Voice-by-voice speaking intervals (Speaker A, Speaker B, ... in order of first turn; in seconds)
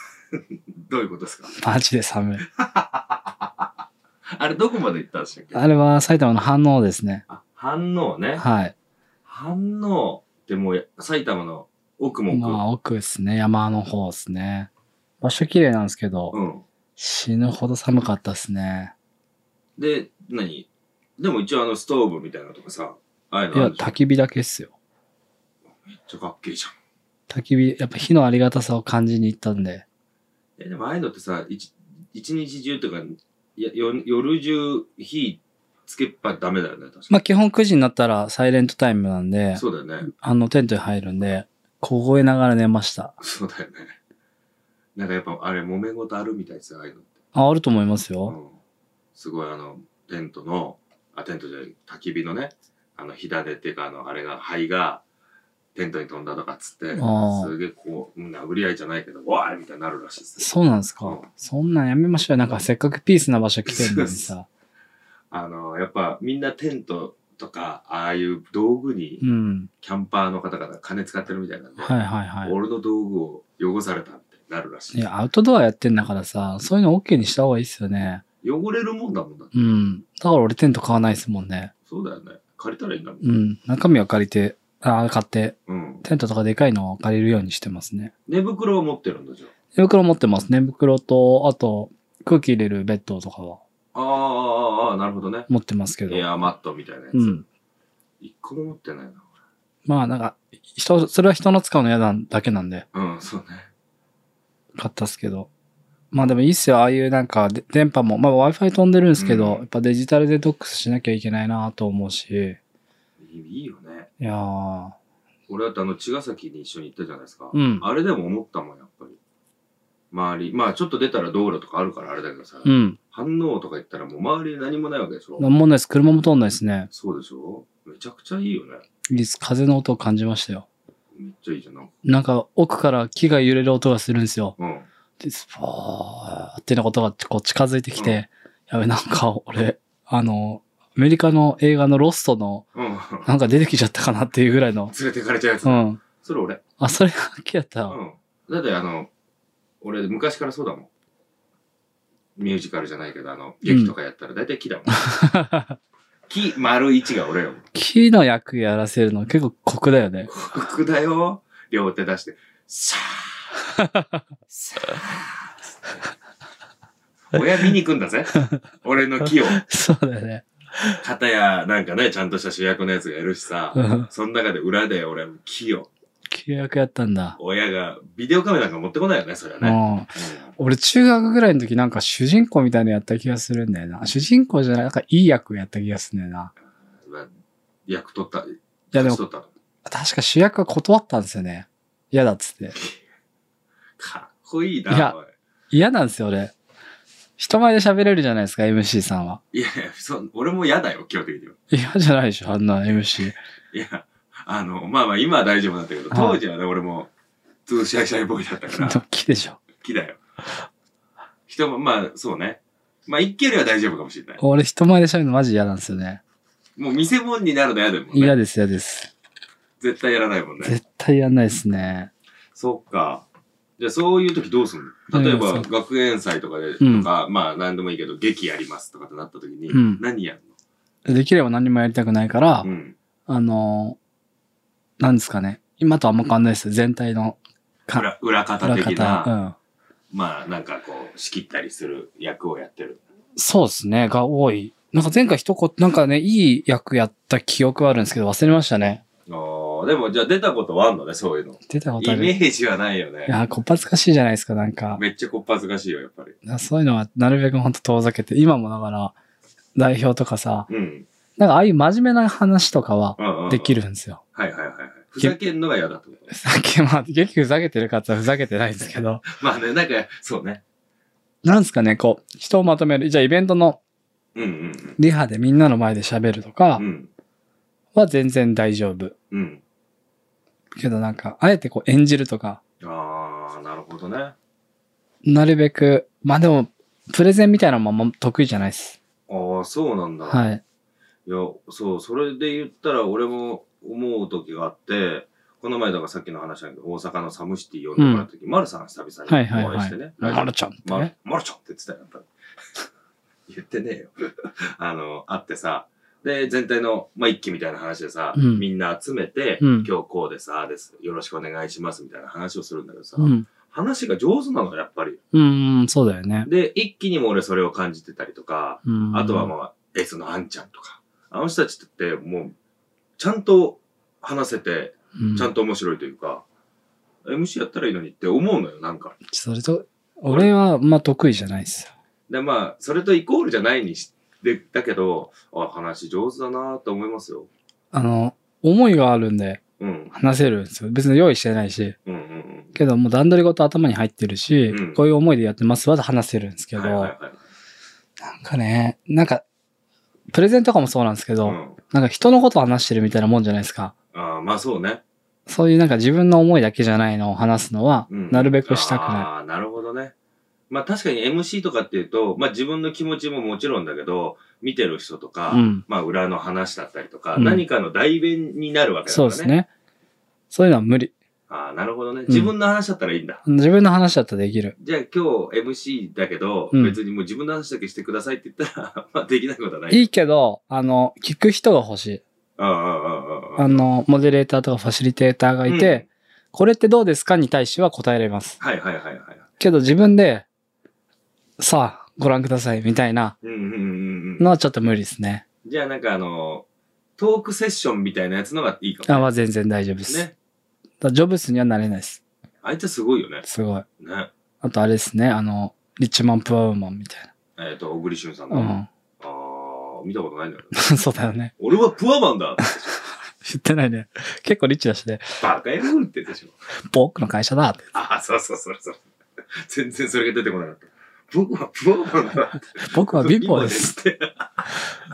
Speaker A: 0.3-1.5, 2.5-3.7, 4.3-5.6, 7.3-8.4, 9.2-12.6, 16.3-16.6, 19.8-24.0, 25.9-26.7, 30.6-37.2, 39.5-40.1, 43.2-44.0, 45.0-47.1, 48.3-48.6, 49.1-55.0, 55.7-60.5, 63.6-64.3, 65.3-69.2, 69.8-75.1, 78.4-79.8, 81.8-83.3, 85.7-86.0, 88.3-89.5, 93.9-95.5, 96.1-97.4, 98.2-99.3, 102.9-103.7, 109.2-109.7, 113.2-114.1, 115.5-119.2, 120.1-125.5, 126.9-128.8, 131.1-131.9, 134.6-134.9, 137.9-138.2, 142.7-143.3, 144.9-146.6, 147.9-149.1, 149.8-150.9, 152.3-155.3, 156.3-157.6, 160.3-163.6, 164.5-166.0, 167.3-169.6, 171.0-175.9, 177.4-180.5, 187.0-187.3, 187.9-189.5, 192.7-193.0, 194.0-195.3, 199.5-201.6, 203.7-207.1, 207.7-209.0, 209.8-210.2, 211.5-214.4, 216.8-218.3, 219.8-220.8, 222.5-223.2, 223.8-230.5, 232.6-232.9, 237.9-239.3, 240.1-243.0, 249.3-253.3, 254.9-256.4, 260.7-261.1, 263.2-263.8, 264.3-266.3, 269.2-270.6, 274.3-275.0, 276.8-277.1, 279.3-279.6, 282.8-284.3, 289.3-290.4, 291.2-302.3, 303.5-315.2, 316.4-322.5, 323.2-326.4, 327.2-329.1, 330.3-330.5, 332.3-337.5, 339.8-340.1, 342.1-342.8, 344.7-345.0, 346.7-347.4, 351.4-351.8, 354.1-355.0, 358.1-360.1, 360.7-369.5, 371.5-373.4, 374.8-380.1, 382.6-383.8, 385.6-386.1, 388.6-389.5, 393.4-394.5, 395.6-396.6, 397.2-399.3, 400.1-400.3, 402.6-403.4, 404.0-404.3, 407.6-410.9, 411.6-412.9, 415.4-416.6, 417.9-424.9
Speaker B: 1.5-2.4, 5.5-7.2, 8.4-8.7, 12.3-14.7, 15.2-16.3, 17.0-18.9, 23.5-24.7, 27.3-29.8, 37.1-43.1, 47.3-48.4, 57.0-57.5, 60.4-64.5, 69.2-69.7, 71.8-72.5, 74.9-78.2, 79.5-81.7, 83.2-88.1, 89.7-93.6, 95.5-96.3, 97.1-97.4, 99.8-102.8, 104.7-105.5, 106.1-112.6, 114.2-115.0, 117.5-117.8, 122.6-123.0, 125.4-126.9, 129.1-130.7, 132.0-134.5, 135.2-142.7, 143.2-144.9, 145.6-146.0, 146.8-148.0, 153.6-153.9, 154.9-155.8, 157.7-160.3, 163.7-164.2, 169.2-171.0, 173.7-174.1, 176.3-177.3, 179.6-186.5, 188.9-189.2, 189.8-192.8, 194.9-195.2, 195.7-196.5, 197.4-199.4, 201.7-203.3, 206.1-206.4, 208.7-209.6, 214.4-216.2, 218.1-219.1, 220.6-222.1, 225.1-225.7, 226.8-227.1, 229.7-230.0, 231.0-232.7, 233.3-234.0, 235.0-238.1, 238.6-239.6, 243.3-249.0, 251.7-252.3, 253.3-255.0, 256.4-259.1, 259.8-260.7, 261.4-264.2, 266.3-269.2, 271.4-273.8, 275.0-276.8, 277.9-279.1, 280.8-282.6, 285.2-289.0, 290.3-290.6, 298.0-298.3, 299.3-301.1, 308.3-308.6, 309.6-309.9, 313.2-313.5, 315.3-316.5, 318.8-319.5, 325.2-325.5, 329.3-331.9, 337.9-339.6, 340.1-341.9, 342.7-347.1, 348.2-349.4, 350.3-353.9, 355.5-359.3, 365.5-365.8, 367.4-367.6, 369.1-369.7, 370.5-371.1, 373.4-374.7, 379.9-382.2, 383.6-388.6, 389.6-390.4, 391.6-393.3, 394.4-395.4, 399.1-400.2, 401.0-402.2, 403.4-403.9, 404.6-407.3, 408.5-408.9, 410.7-411.5, 413.4-415.4, 416.8-417.8, 422.7-423.9